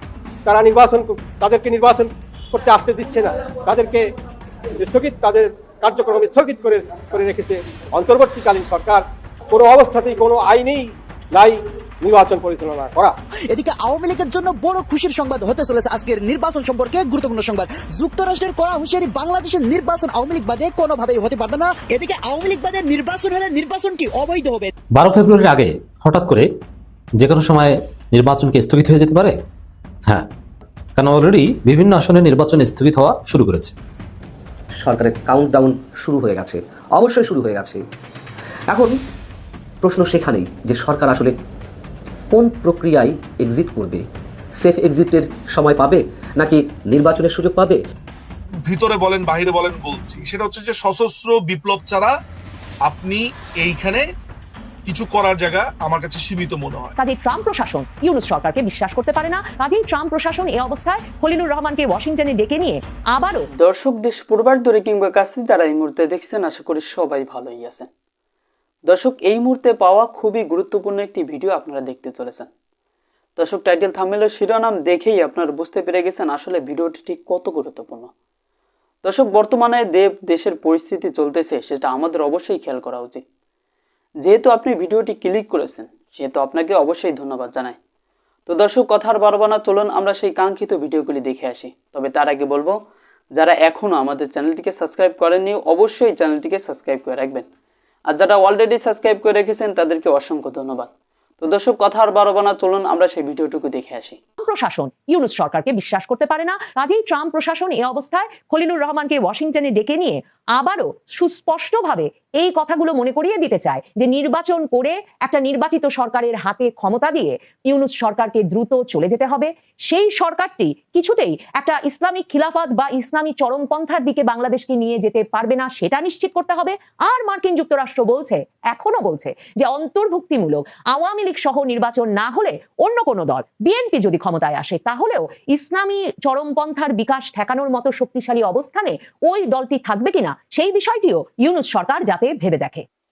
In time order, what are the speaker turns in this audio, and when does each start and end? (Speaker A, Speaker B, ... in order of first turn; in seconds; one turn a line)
Speaker A: 0.5-4.0
Speaker A: 4.8-13.1
Speaker B: 13.5-24.7
Speaker C: 24.9-26.5
Speaker C: 27.2-29.3
Speaker C: 31.0-33.7
Speaker D: 34.8-37.8
Speaker D: 38.7-39.0
Speaker D: 39.8-41.4
Speaker D: 42.3-44.0
Speaker D: 44.6-47.8
Speaker E: 48.6-52.1
Speaker E: 52.8-54.0
Speaker E: 54.9-56.9
Speaker F: 57.0-63.5
Speaker G: 63.6-67.9
Speaker G: 68.9-72.5
Speaker G: 73.4-78.1
Speaker G: 79.0-83.2
Speaker G: 84.2-87.8
Speaker G: 88.5-92.8
Speaker G: 93.3-97.4
Speaker G: 98.1-100.9
Speaker G: 101.4-104.2
Speaker F: 104.4-142.8